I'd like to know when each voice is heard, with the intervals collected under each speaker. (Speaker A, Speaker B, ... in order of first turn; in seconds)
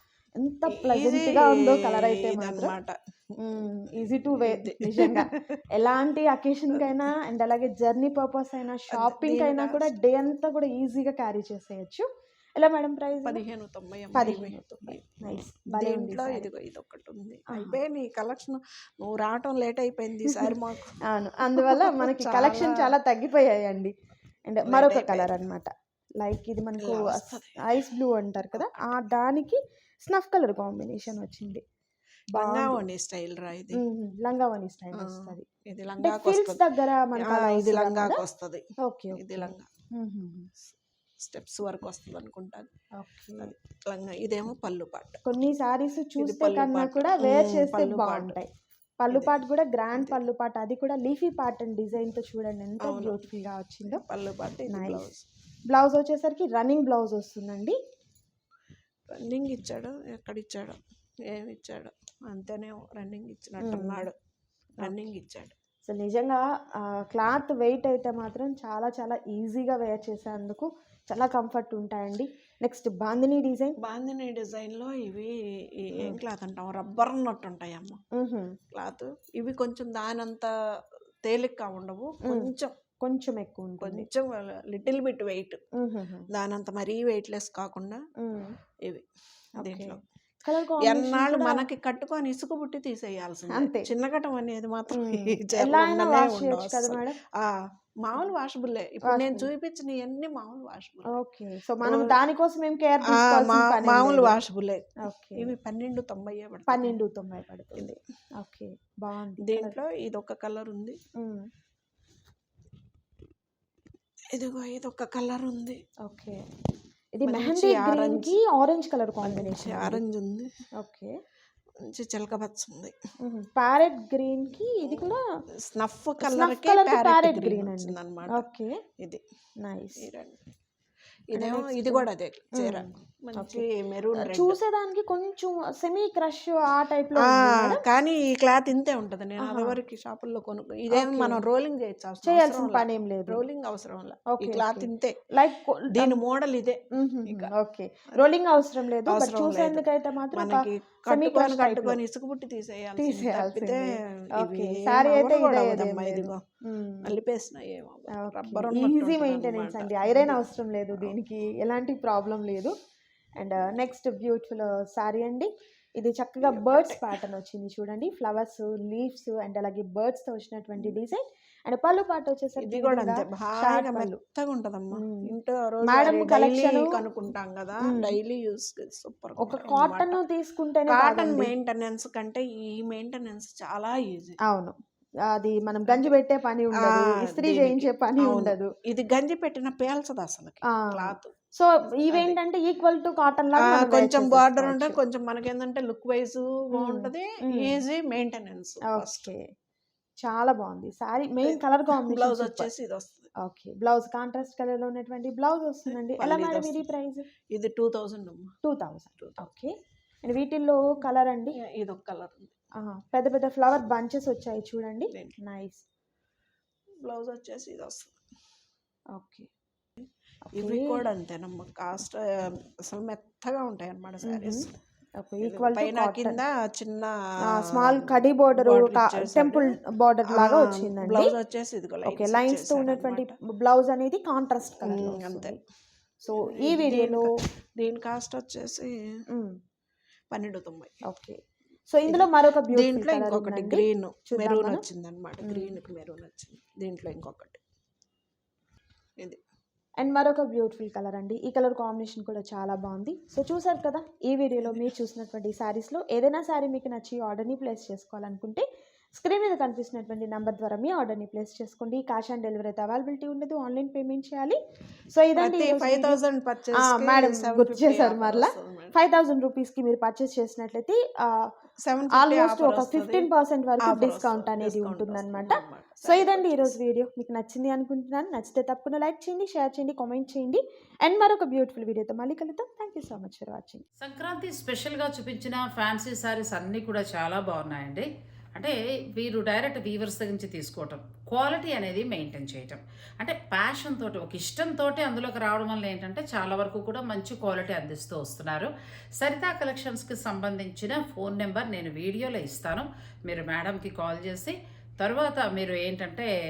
Speaker A: 0.4-2.7, 3.4-13.4, 14.1-16.5, 17.5-17.8, 20.2-23.9, 24.5-31.6, 32.3-32.9, 33.7-35.4, 36.0-38.2, 38.8-40.5, 43.0-43.5, 45.2-48.5, 49.0-54.0, 54.7-55.1, 55.7-57.8, 63.6-64.1, 64.8-65.1, 65.8-73.8, 78.1-78.6, 82.2-84.1, 85.8-86.3, 88.2-88.5, 89.6-91.7, 93.5-93.9, 94.9-97.2, 99.0-99.5, 101.1-104.3, 105.0-105.5, 106.7-109.8, 111.2-111.5, 116.0-116.4, 117.1-120.0, 120.8-121.1, 123.2-125.2, 126.2-128.8, 129.6-130.1, 131.3-137.8, 139.4-139.8, 140.9-141.4, 142.2-143.4, 144.3-146.2, 146.9-152.0, 153.0-157.2, 158.1-162.7, 163.4-174.2, 174.9-175.3, 175.8-177.0, 177.8-178.2, 179.4-181.5, 184.4-188.7, 190.7-195.0, 196.7-197.8, 198.9-199.5, 200.2-202.7, 203.4-207.3, 208.6-211.6, 212.8-215.8, 219.1-219.5, 220.5-221.1, 224.2-224.7, 225.2-226.4, 227.4-231.3, 232.0-235.6, 236.2-237.3, 239.3-239.6, 241.1-244.8, 245.4-245.8, 250.0-266.2, 266.7-271.5, 272.1-283.8
Speaker B: 0.7-3.4, 4.1-5.6, 8.9-9.9, 13.2-21.0, 21.5-22.9, 24.6-25.4, 26.8-27.5, 28.6-28.9, 32.3-33.8, 34.9-36.6, 37.1-39.7, 40.6-42.7, 43.4-45.2, 46.2-48.4, 52.8-53.2, 53.9-55.2, 59.1-64.1, 64.8-65.5, 73.8-78.0, 78.7-80.5, 81.2-82.7, 83.8-85.6, 86.3-88.0, 89.6-90.0, 90.8-101.1, 101.8-102.2, 103.0-107.0, 109.4-111.0, 114.3-115.8, 117.2-118.4, 119.2-120.5, 121.8-122.9, 124.8-128.4, 130.0-130.4, 131.3-134.6, 137.2-145.2, 145.9-147.5, 149.1-156.4, 157.0-161.1, 166.4-167.0, 172.6-180.2, 180.9-184.4, 185.9-186.1, 186.7-191.3, 192.1-192.4, 193.6-199.3, 201.4-203.3, 206.2-206.8, 207.5-208.5, 209.2-209.5, 211.6-212.5, 215.1-215.4, 217.0-218.1, 220.5-224.7, 225.4-233.3, 234.8-235.6, 236.3-239.2, 240.3-240.9, 242.1-247.6, 265.4-268.9, 271.8-273.3, 273.8-276.7
Speaker C: 284.0-306.3